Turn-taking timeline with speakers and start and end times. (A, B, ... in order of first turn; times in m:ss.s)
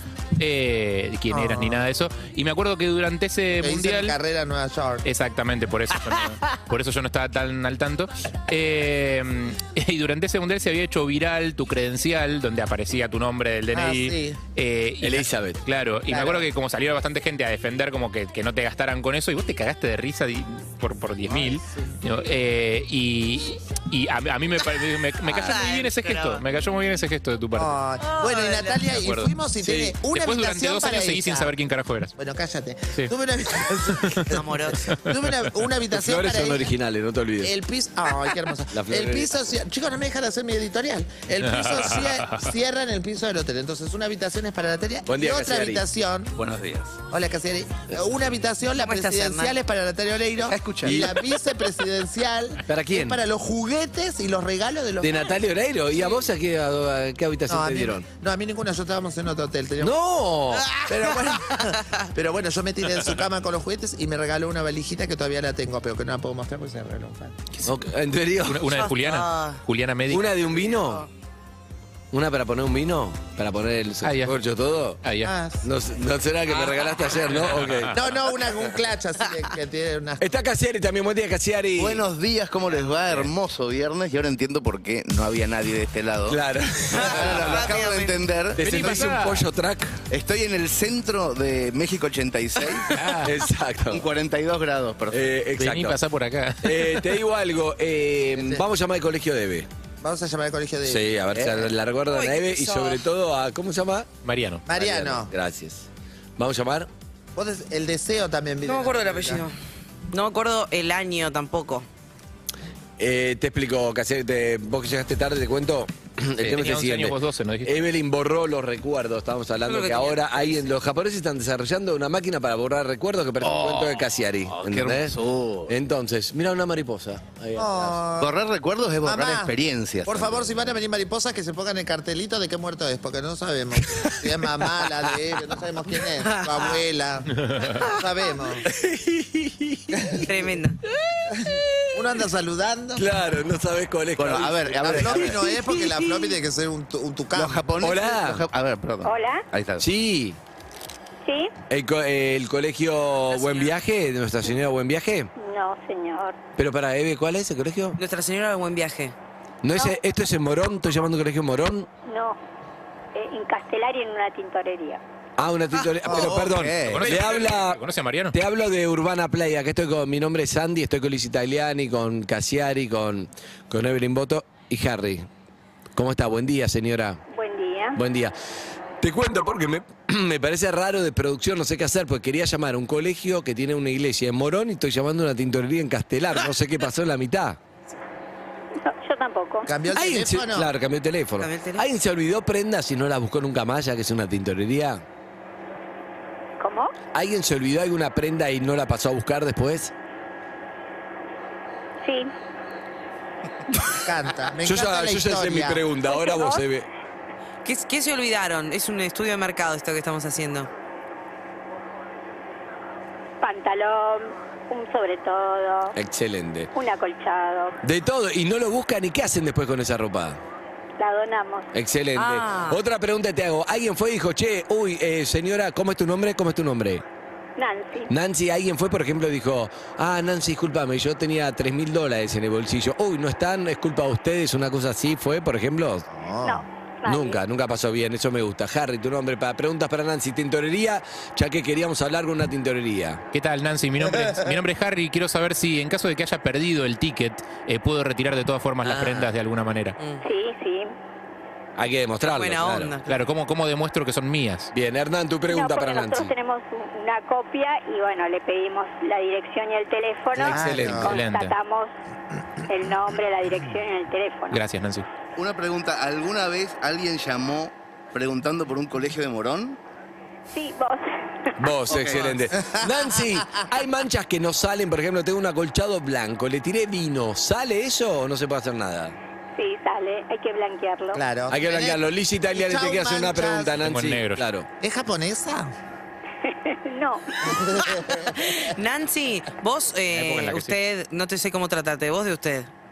0:00.4-0:04.2 A
0:01.3-0:01.9 B
0:03.6-0:05.1 B
0:05.0-0:27.8 A
0:13.7-0:14.4 B
0:15.0-0:15.6 C
0:16.1-0:16.5 B
0:21.3-0:22.0 B
0:25.3-0:26.4 D
0:27.5-0:31.5 B
0:28.0-0:28.8 D
0:28.9-0:32.1 A
0:32.2-0:36.7 B
0:34.0-0:34.3 A
0:34.3-0:34.8 D
0:35.9-0:37.5 C
0:37.4-0:46.4 B
0:38.7-0:39.4 C
0:41.4-0:42.5 A
0:45.1-0:45.8 C
0:46.5-0:46.8 E
0:47.1-0:55.3 B
0:48.8-0:49.6 D
0:50.4-0:51.1 E
0:50.8-0:51.2 C
0:52.7-0:53.2 C
0:55.0-0:58.0 C
0:57.5-1:00.0 B
0:59.8-1:00.7 C
1:00.8-1:01.7 D
1:00.8-1:07.4 B
1:07.7-1:08.7 C
1:08.4-1:10.4 A
1:08.7-1:09.6 D
1:10.1-1:11.1 C
1:10.6-1:11.0 D
1:12.1-1:15.0 C
1:14.0-1:14.4 A
1:15.0-1:15.3 A
1:15.2-1:15.7 B
1:15.6-1:18.0 C
1:17.3-1:18.0 A
1:17.9-1:20.3 B
1:20.2-1:22.0 C
1:21.8-1:26.4 E
1:26.3-1:27.7 C
1:26.9-1:28.2 D
1:27.1-1:29.2 E
1:28.6-1:30.0 C
1:28.6-1:29.4 A
1:30.1-1:33.0 E
1:32.9-1:33.4 A
1:33.2-1:34.1 C
1:33.9-1:35.3 E
1:35.1-1:36.0 C
1:35.6-1:37.1 A
1:36.6-1:39.7 C
1:38.4-1:38.6 B
1:40.0-1:41.7 B
1:40.8-1:44.1 C
1:42.1-1:43.0 D
1:44.2-1:44.6 A
1:44.7-1:45.3 B
1:44.7-1:45.9 C
1:46.4-1:46.9 C
1:47.4-1:49.4 B
1:48.6-1:49.5 D
1:50.1-1:51.9 D
1:53.0-2:08.0 C
1:56.4-1:57.9 A
1:59.7-2:00.7 D
2:03.4-2:05.7 E
2:07.6-2:08.4 B
2:08.2-2:10.8 E
2:09.0-2:09.5 B
2:10.0-2:18.7 B
2:16.2-2:16.8 D
2:17.4-2:17.8 A
2:18.7-2:20.4 C
2:19.9-2:20.3 B
2:20.2-2:20.8 D
2:21.5-2:23.1 B
2:23.0-2:26.1 C
2:24.2-2:25.7 E
2:24.8-2:27.7 B
2:27.3-2:29.9 E
2:27.8-2:28.4 C
2:29.0-2:29.4 F
2:29.8-2:30.4 C
2:31.2-2:31.5 F
2:31.7-2:35.3 C
2:33.3-2:33.7 D
2:35.4-2:36.4 F
2:36.6-2:38.0 C
2:38.0-2:39.2 D
2:39.6-2:41.9 C
2:42.1-2:42.4 F
2:43.2-2:45.0 F
2:45.4-2:47.8 C
2:46.0-2:47.4 E
2:46.1-2:46.3 B
2:46.9-2:48.4 A
2:48.3-2:55.3 C
2:56.0-2:57.2 C
2:57.3-2:58.0 F
2:58.0-2:58.3 C
2:59.0-3:07.6 C
3:08.8-3:09.7 F
3:09.7-3:10.7 B
3:09.9-3:15.0 C
3:11.4-3:11.8 D
3:16.6-3:16.9 F
3:17.1-3:19.9 C
3:22.0-3:22.3 F
3:23.9-3:25.8 B
3:24.6-3:26.9 C
3:26.0-3:26.6 F
3:27.6-3:30.7 D
3:33.4-3:36.0 F
3:36.0-3:36.7 C
3:36.7-3:37.8 F
3:37.8-3:40.4 C
3:41.0-3:41.7 F
3:41.7-3:47.0 C
3:42.2-3:42.8 D
3:47.6-3:48.1 F
3:48.1-3:56.1 C
3:56.1-3:56.6 B
3:56.4-3:57.4 F
3:57.1-4:03.2 C
4:03.3-4:10.0 A
4:04.0-4:04.5 B
4:08.9-4:09.3 B
4:10.2-4:10.9 F
4:11.8-4:12.9 C
4:12.3-4:13.1 D
4:13.1-4:14.7 A
4:14.7-4:16.3 C
4:15.5-4:21.9 F
4:20.3-4:21.2 C
4:20.5-4:21.1 B
4:21.0-4:21.6 A
4:22.7-4:24.6 F
4:24.5-4:25.1 A
4:25.4-4:29.8 E
4:30.5-4:31.0 F
4:31.6-4:39.2 C
4:31.9-4:32.4 E
4:32.5-4:33.1 B
4:39.6-4:41.2 F
4:41.1-4:43.8 B
4:41.5-4:44.7 C
4:43.8-4:44.4 A
4:44.8-4:45.7 B
4:46.5-4:47.5 F
4:47.4-4:48.6 B
4:48.0-4:52.7 D
4:50.2-4:50.7 A
4:50.3-4:50.6 C